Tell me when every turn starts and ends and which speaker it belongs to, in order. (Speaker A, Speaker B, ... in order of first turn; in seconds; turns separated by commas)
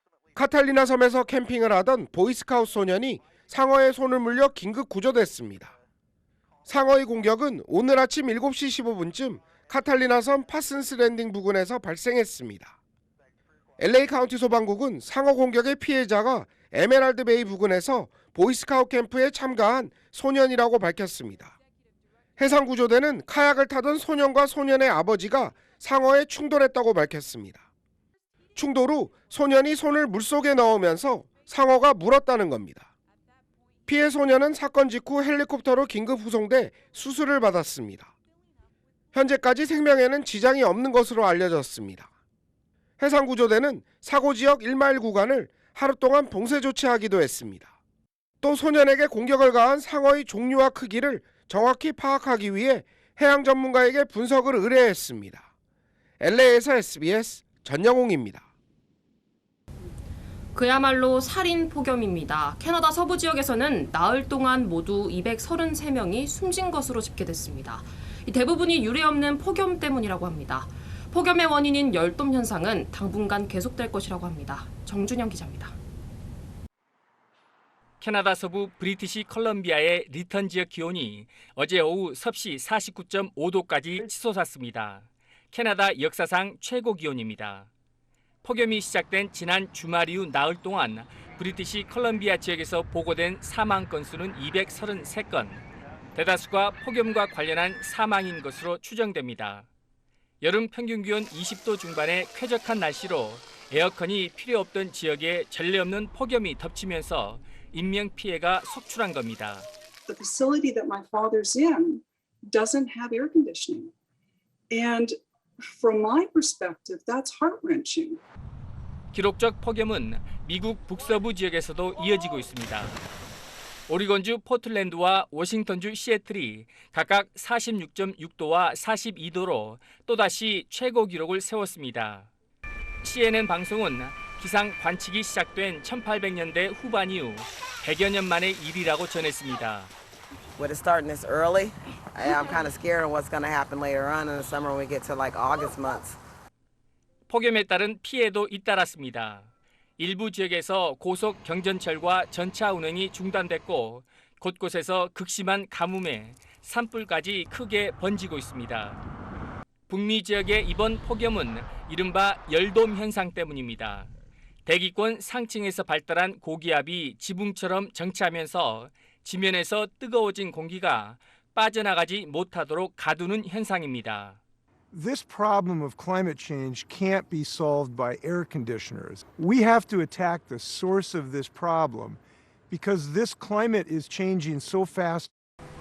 Speaker A: 0.4-5.7, Speaker A: 6.7-12.8, Speaker A: 13.8-21.6, Speaker A: 22.4-27.6, Speaker A: 28.6-32.9, Speaker A: 33.9-38.1, Speaker A: 39.1-42.1, Speaker A: 43.0-47.7, Speaker A: 48.4-55.5, Speaker A: 56.2-58.4, Speaker B: 60.5-75.8, Speaker C: 78.0-87.7, Speaker C: 88.4-95.6, Speaker C: 96.2-99.7, Speaker C: 100.4-109.7, Speaker D: 110.1-113.9, Speaker D: 114.7-115.2, Speaker D: 115.8-118.2, Speaker C: 119.1-123.0, Speaker C: 123.9-132.3, Speaker C: 133.0-139.9, Speaker E: 140.6-146.2, Speaker C: 147.3-159.0, Speaker C: 159.9-164.1, Speaker C: 164.7-174.4, Speaker F: 174.9-182.2, Speaker F: 182.7-185.3